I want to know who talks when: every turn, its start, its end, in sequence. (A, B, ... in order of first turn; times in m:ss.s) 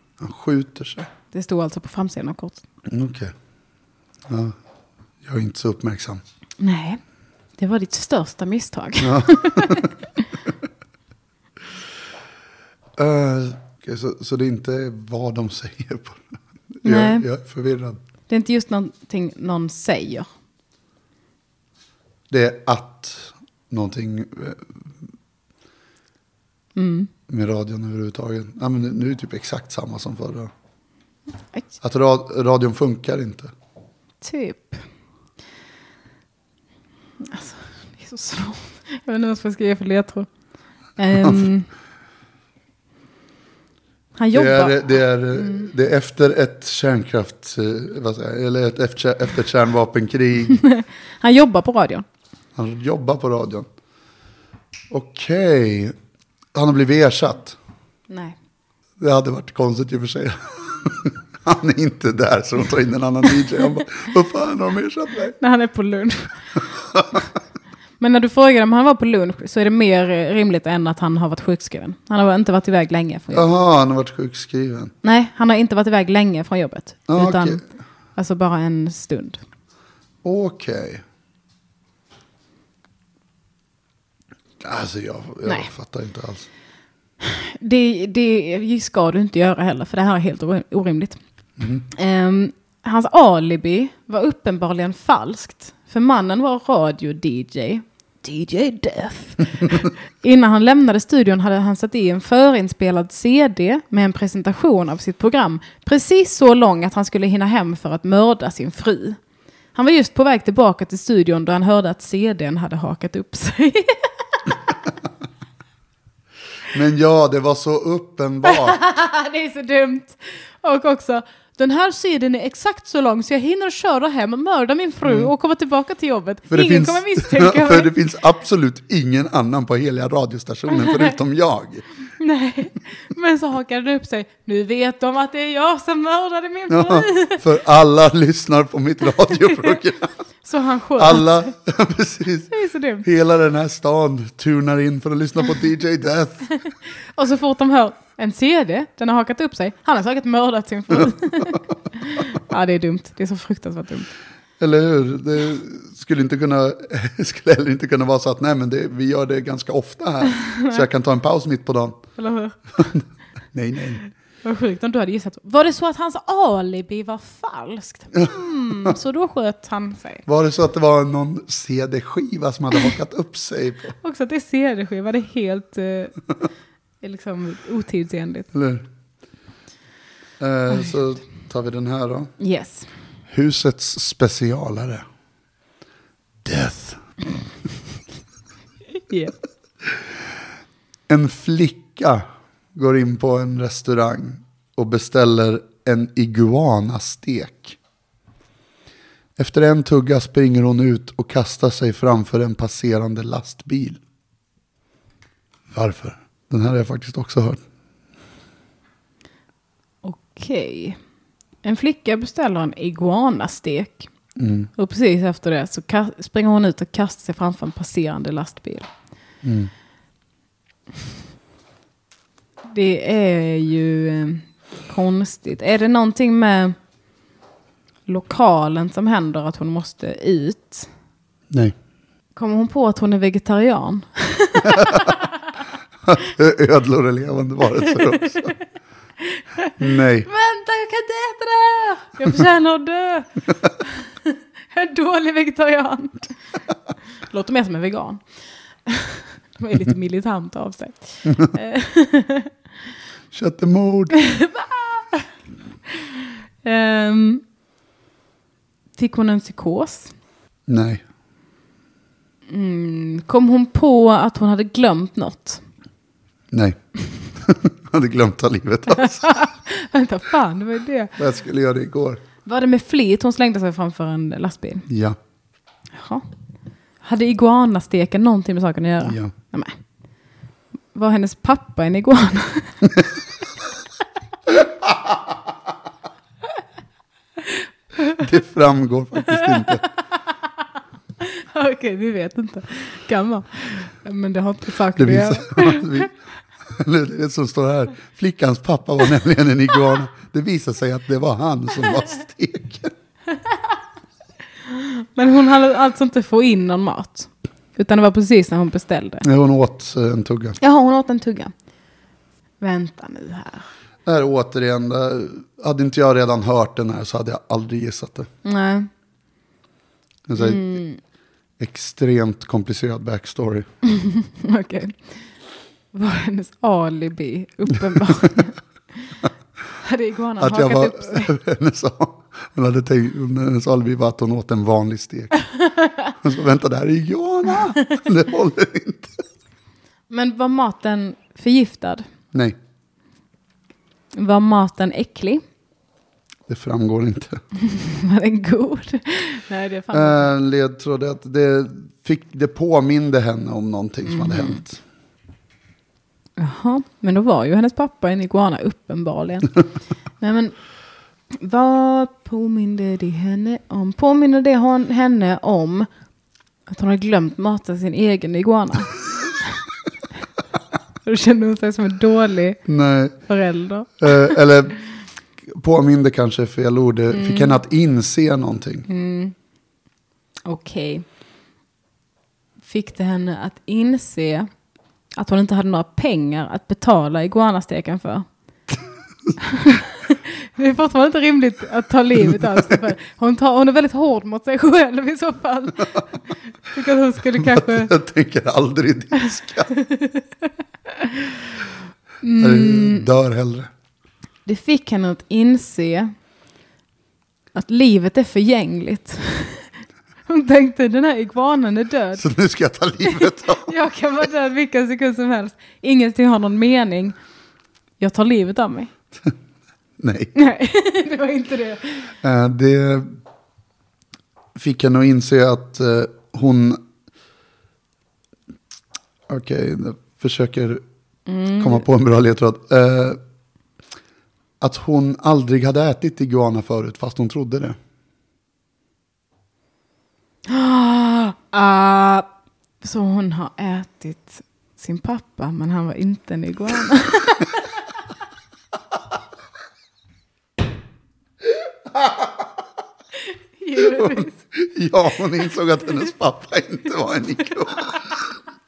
0:00.2-0:01.1 A
0:01.3-0:02.6 B
0:02.9-0:03.3 A
0:04.3-0:04.6 A
0:05.2-0:06.2 A
0:06.6-0:07.0 B
0:07.6-0:09.9 B
0:09.0-0:09.9 A
0:13.0-0:16.2 A
0:16.8-0:18.0 A
0:16.8-0:17.3 B
0:18.3-0:20.3 B
0:22.3-0:24.7 A
0:26.8-0:27.1 B
0:27.3-0:30.5 A
0:31.8-0:33.5 A
0:34.2-0:34.8 B
0:37.2-0:40.3 B
0:41.0-0:41.7 B
0:44.2-0:45.7 B
0:44.3-0:50.6 A
0:50.5-0:52.0 B
0:52.6-0:53.7 A
0:54.9-0:56.0 A
0:56.6-0:57.6 A
0:58.1-0:58.4 B
0:59.0-1:05.3 A
1:05.4-1:06.6 B
1:06.9-1:07.2 A
1:08.0-1:13.5 B
1:13.3-1:14.9 A
1:15.0-1:17.6 B
1:17.1-1:17.6 A
1:18.2-1:19.4 B
1:20.2-1:21.0 A
1:24.6-1:26.5 A
1:27.2-1:31.2 B
1:31.9-1:49.2 B
1:49.8-1:54.6 B
1:56.7-1:58.8 A
1:58.4-2:07.9 B
2:05.0-2:05.3 A
2:06.5-2:11.8 A
2:10.7-2:11.1 B
2:12.2-2:17.4 B
2:16.7-2:20.1 A
2:19.5-2:19.8 B
2:20.4-2:21.5 B
2:21.0-2:22.5 A
2:22.5-2:23.0 B
2:23.0-2:26.5 A
2:26.6-2:34.1 B
2:34.6-2:42.0 A
2:40.3-2:40.8 B
2:42.2-2:42.6 B
2:42.8-2:44.1 A
2:44.4-2:50.2 B
2:50.3-2:54.0 A
2:54.0-2:56.2 B
2:57.0-2:58.5 B
2:58.5-2:58.8 A
3:00.4-3:02.3 A
3:02.4-3:02.9 B
3:03.3-3:05.0 A
3:06.4-3:07.0 A
3:09.1-3:09.3 B
3:11.1-3:12.2 A
3:12.8-3:17.8 A
3:19.4-3:24.0 A
3:25.7-3:27.6 A
3:30.0-3:31.0 B
3:31.6-3:34.1 B
3:34.4-3:34.7 A
3:34.8-3:38.9 B
3:39.4-3:39.7 A
3:42.6-3:46.8 B
3:48.1-3:50.9 B
3:52.4-3:55.4 B
3:54.6-3:55.1 A
3:56.1-3:58.6 A
3:57.9-3:58.5 B
3:59.2-3:59.7 B
3:59.8-4:00.3 A
4:00.2-4:06.3 B
4:07.3-4:08.2 B
4:08.8-4:12.5 B
4:11.3-4:11.5 A
4:13.3-4:14.2 A
4:14.1-4:15.3 B
4:15.9-4:17.4 B
4:19.0-4:20.1 B
4:20.7-4:21.0 A
4:22.5-4:25.6 B
4:26.5-4:26.8 A
4:27.3-4:29.3 A
4:28.9-4:31.1 B
4:31.2-4:32.2 A
4:32.4-4:34.9 B
4:34.9-4:35.2 A
4:35.9-4:36.3 B
4:37.0-4:39.8 B
4:39.0-4:39.3 A
4:40.9-4:42.9 B
4:47.4-4:48.2 B
4:48.1-4:49.8 A
4:49.3-4:50.2 B
4:51.2-4:56.1 B
4:55.0-4:56.1 A
4:56.7-5:02.9 A
5:04.6-5:09.2 B
5:09.2-5:10.6 A
5:10.6-5:11.5 B
5:12.6-5:13.7 B
5:14.1-5:18.3 A
5:18.4-5:18.9 B
5:20.3-5:20.8 A
5:20.4-5:21.0 B
5:21.6-5:23.7 A
5:23.8-5:25.0 B
5:25.9-5:29.2 B
5:29.8-5:31.3 B
5:30.4-5:35.4 A
5:35.6-5:36.1 B
5:36.2-5:39.2 A
5:40.1-5:42.0 B
5:44.1-5:45.4 B
5:46.5-5:47.4 A
5:47.6-5:50.3 B
5:49.9-5:54.8 A
5:54.1-5:54.6 B
5:56.4-5:59.5 B
6:00.2-6:00.6 B
6:01.3-6:05.9 B
6:06.7-6:09.6 B
6:11.0-6:12.6 B
6:12.7-6:13.2 A
6:13.3-6:14.4 B
6:14.0-6:14.8 A
6:15.5-6:18.9 A
6:17.1-6:17.6 B
6:18.9-6:19.3 B
6:20.5-6:21.0 B
6:22.6-6:24.5 B
6:25.2-6:28.2 B
6:29.4-6:37.9 B
6:37.3-6:39.7 A
6:39.7-6:41.5 B
6:42.2-6:43.1 B
6:42.4-6:43.7 A
6:44.5-6:46.1 B
6:47.5-6:49.7 B
6:50.3-6:52.2 B
6:52.2-6:53.7 A
6:53.0-6:57.2 B
6:58.0-6:58.9 B
7:00.0-7:00.3 A
7:00.4-7:02.1 B
7:02.2-7:03.2 A
7:04.6-7:06.8 A
7:09.3-7:10.8 A
7:11.3-7:11.8 B
7:11.6-7:13.2 A
7:14.6-7:17.8 A
7:20.5-7:22.3 B
7:22.8-7:27.9 B
7:31.9-7:32.5 A
7:33.2-7:34.4 B
7:33.8-7:38.2 A